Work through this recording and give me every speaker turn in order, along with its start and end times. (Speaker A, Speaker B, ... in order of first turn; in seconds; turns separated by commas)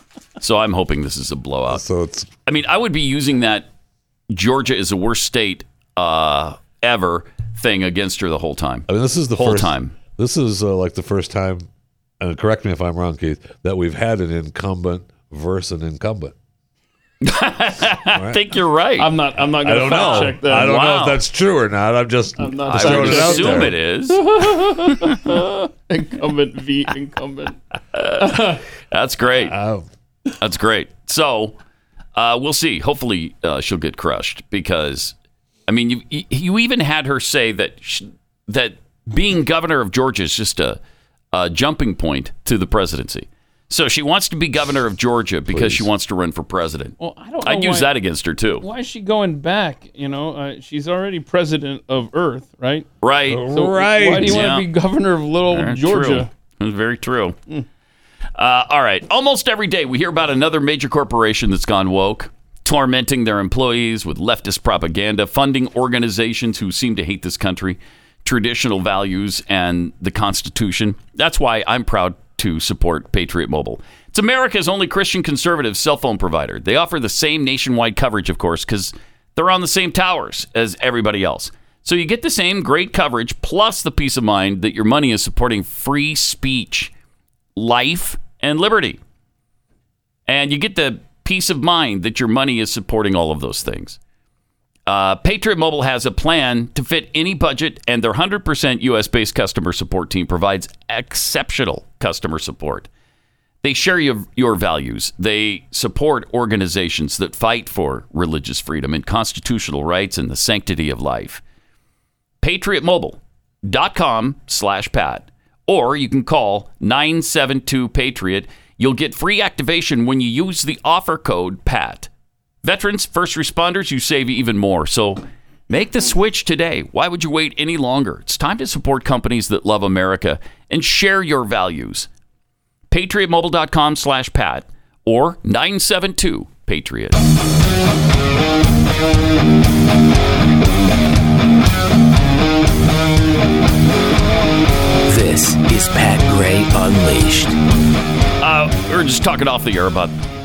Speaker A: 0.4-1.8, Speaker B: 1.7-2.3, Speaker A: 2.5-3.7, Speaker A: 4.3-9.9, Speaker B: 8.9-11.7, Speaker B: 12.2-16.3, Speaker A: 17.2-19.1, Speaker B: 18.0-18.4, Speaker C: 19.0-20.8, Speaker B: 19.5-23.7, Speaker A: 19.8-21.2, Speaker C: 22.4-27.6, Speaker A: 22.6-25.1, Speaker A: 27.9-29.6, Speaker C: 28.1-28.6, Speaker B: 29.4-29.9, Speaker A: 30.4-31.6, Speaker A: 32.1-35.1, Speaker A: 35.7-40.8, Speaker A: 41.3-48.6, Speaker B: 45.5-45.9, Speaker C: 47.0-47.9, Speaker C: 48.6-52.9, Speaker A: 53.0-53.5, Speaker B: 53.3-54.5, Speaker C: 53.5-56.3, Speaker A: 54.2-54.7, Speaker A: 55.5-57.4, Speaker A: 58.4-86.9, Speaker A: 87.5-89.0, Speaker A: 90.3-94.0, Speaker A: 94.9-102.9, Speaker A: 103.6-111.4, Speaker A: 112.4-122.1, Speaker A: 122.6-132.1, Speaker A: 132.9-137.2, Speaker D: 145.1-147.5, Speaker A: 148.4-150.1